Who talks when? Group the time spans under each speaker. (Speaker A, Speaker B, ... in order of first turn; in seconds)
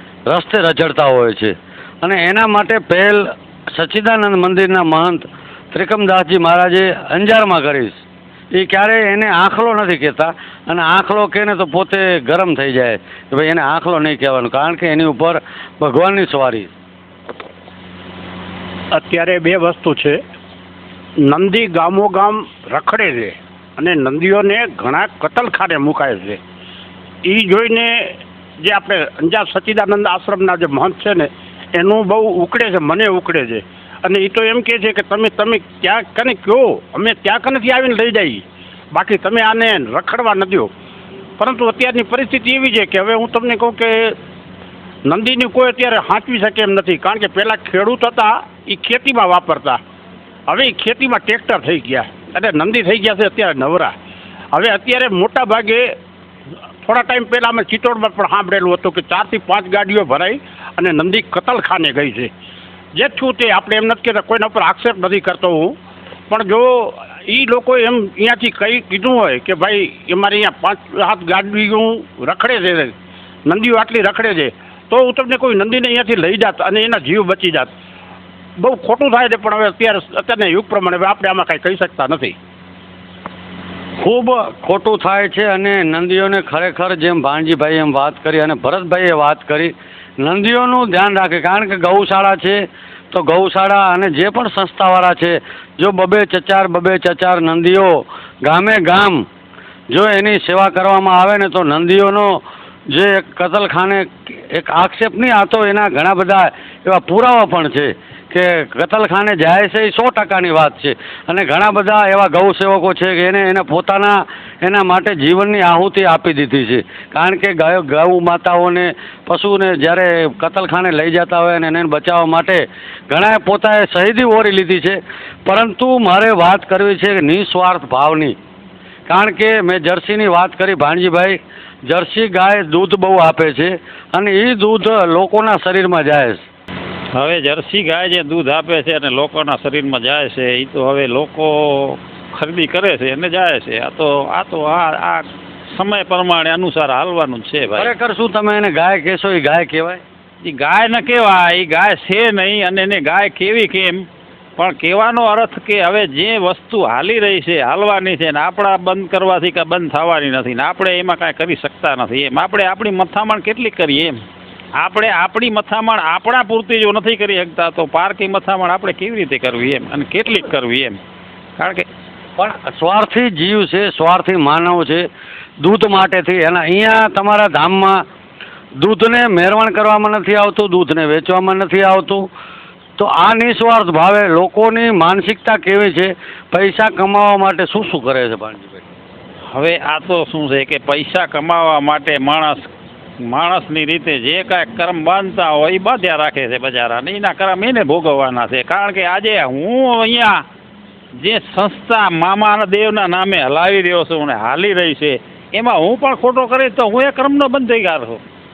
Speaker A: 0.3-16.7, 84.0-99.2, 99.9-128.4, 129.1-136.4, 147.8-150.0, 172.4-175.1, 175.6-178.0, 178.8-182.3, 183.0-188.8
Speaker B: 18.9-20.2, 21.2-26.4, 27.2-40.7, 41.4-44.2, 45.1-49.8, 50.5-53.9, 54.5-55.9, 56.8-62.3, 63.0-65.8, 66.3-72.9, 73.5-77.7, 78.6-82.3
Speaker C: 137.2-147.9, 150.4-154.1, 154.6-164.2, 164.8-171.0, 171.6-171.9, 189.5-192.7, 193.2-200.4, 201.2-208.2